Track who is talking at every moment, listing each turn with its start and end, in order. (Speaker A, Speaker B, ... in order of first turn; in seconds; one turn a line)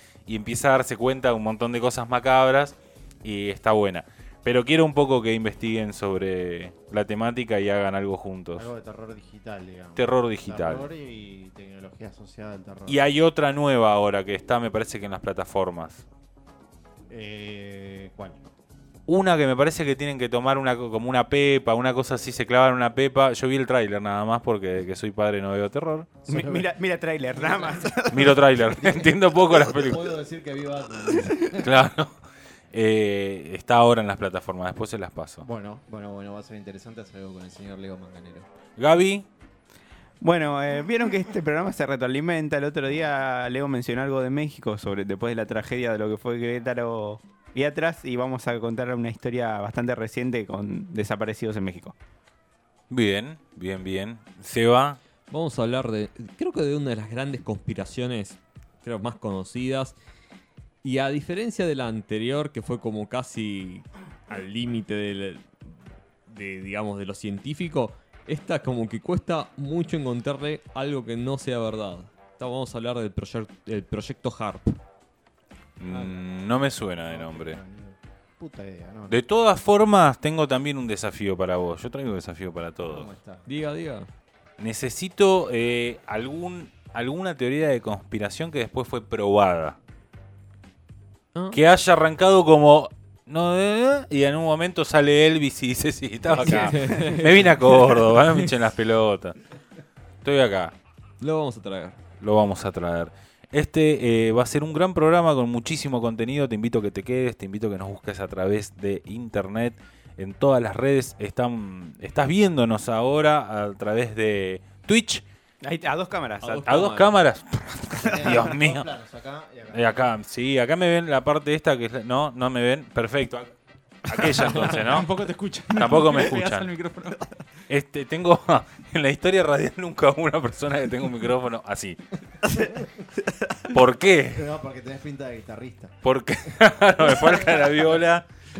Speaker A: 0.3-8.7
Speaker B: 8.6-13.0
Speaker A: 10.0-10.8
Speaker A: 12.9-16.0
Speaker B: 17.1-18.4
Speaker A: 19.1-26.1
Speaker B: 26.2-26.7
Speaker C: 26.3-28.4
Speaker B: 27.3-31.7
Speaker A: 28.1-30.1
Speaker C: 31.1-31.5
Speaker A: 31.6-32.1
Speaker A: 32.7-35.4
Speaker B: 35.4-38.5
Speaker A: 38.8-39.2
Speaker C: 40.2-51.9
Speaker A: 52.9-55.0
Speaker D: 55.3-60.0
Speaker D: 60.8-65.8
Speaker D: 66.3-74.8
Speaker A: 75.8-77.6
Speaker B: 75.9-76.2
Speaker B: 77.1-79.2
Speaker A: 79.1-83.1
Speaker B: 82.8-83.4
Speaker D: 83.5-84.1
Speaker A: 84.6-89.8
Speaker A: 91.5-99.3
Speaker D: 96.4-98.5
Speaker A: 100.2-100.7
Speaker D: 101.2-102.0
Speaker A: 102.2-115.2
Speaker C: 115.6-116.7
Speaker D: 116.4-117.1
Speaker A: 116.7-118.9
Speaker C: 118.0-118.4
Speaker B: 118.0-120.1
Speaker A: 119.7-125.1
Speaker D: 124.5-124.8
Speaker E: 124.6-127.4
Speaker A: 125.7-126.7
Speaker A: 127.7-132.0
Speaker B: 132.5-133.1
Speaker A: 133.7-134.4
Speaker B: 134.3-136.0
Speaker A: 136.0-138.3
Speaker B: 137.2-137.6